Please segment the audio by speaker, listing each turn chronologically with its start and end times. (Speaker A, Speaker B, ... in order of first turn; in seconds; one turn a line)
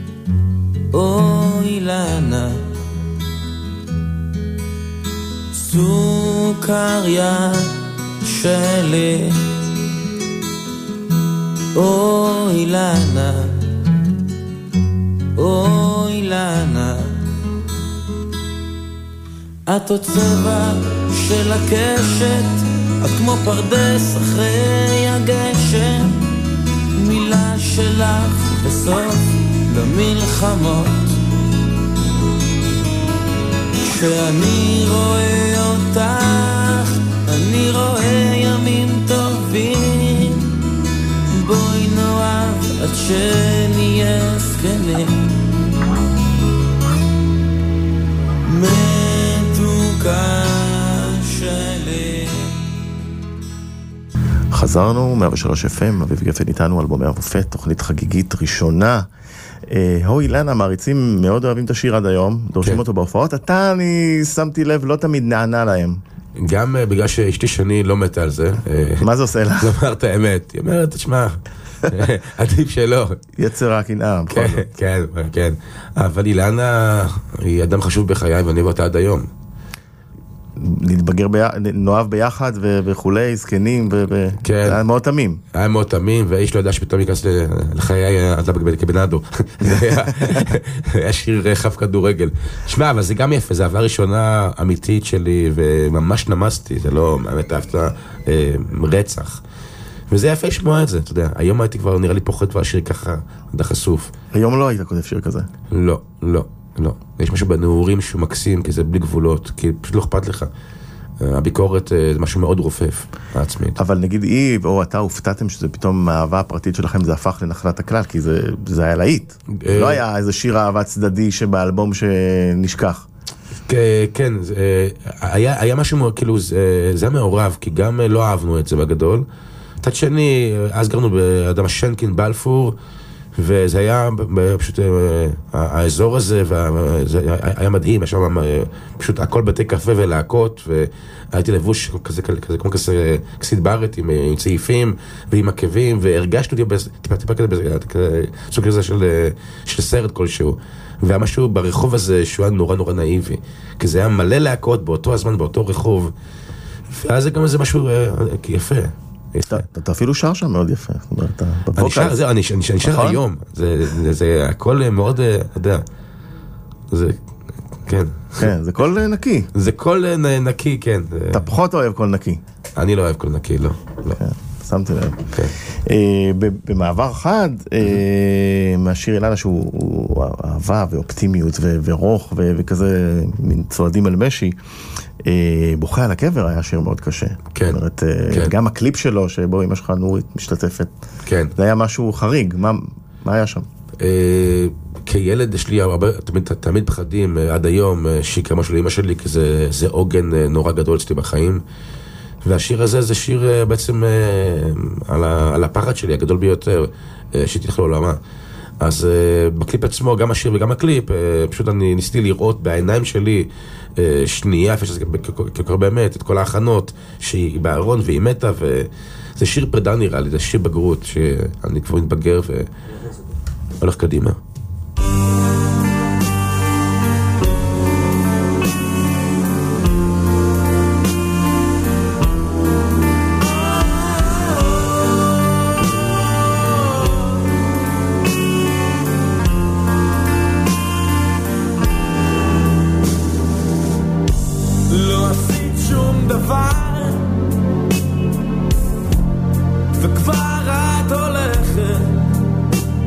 Speaker A: 0.9-2.6
Speaker A: 5.5-9.4
Speaker A: 11.7-13.6
Speaker A: 15.3-17.2
Speaker A: 19.6-26.2
Speaker A: 26.9-31.2
Speaker A: 33.8-40.5
Speaker A: 41.3-45.3
Speaker A: 48.4-52.6
Speaker B: 54.5-59.1
Speaker B: 59.7-66.0
Speaker C: 66.4-73.2
Speaker B: 69.0-69.7
Speaker B: 73.3-74.7
Speaker C: 74.3-79.3
Speaker B: 80.6-85.4
Speaker C: 84.4-84.8
Speaker C: 85.5-99.4
Speaker B: 89.8-90.4
Speaker C: 100.1-104.1
Speaker B: 104.3-105.5
Speaker C: 105.7-110.5
Speaker C: 111.2-113.8
Speaker B: 113.8-123.1
Speaker C: 119.5-120.0
Speaker C: 123.7-129.2
Speaker C: 129.8-132.7
Speaker C: 133.4-156.1
Speaker C: 156.9-159.6
Speaker B: 159.5-162.2
Speaker C: 161.8-165.8
Speaker B: 162.8-163.2
Speaker C: 166.9-167.2
Speaker C: 167.8-168.5
Speaker B: 168.4-169.5
Speaker C: 169.5-171.4
Speaker B: 171.3-172.4
Speaker C: 172.8-174.2
Speaker B: 174.2-184.6
Speaker B: 185.2-190.9
Speaker C: 191.2-191.5
Speaker B: 191.6-193.7
Speaker C: 194.0-201.6
Speaker C: 202.4-208.2
Speaker C: 208.8-222.7
Speaker C: 223.8-224.4
Speaker A: 244.9-247.2
Speaker A: 250.0-252.2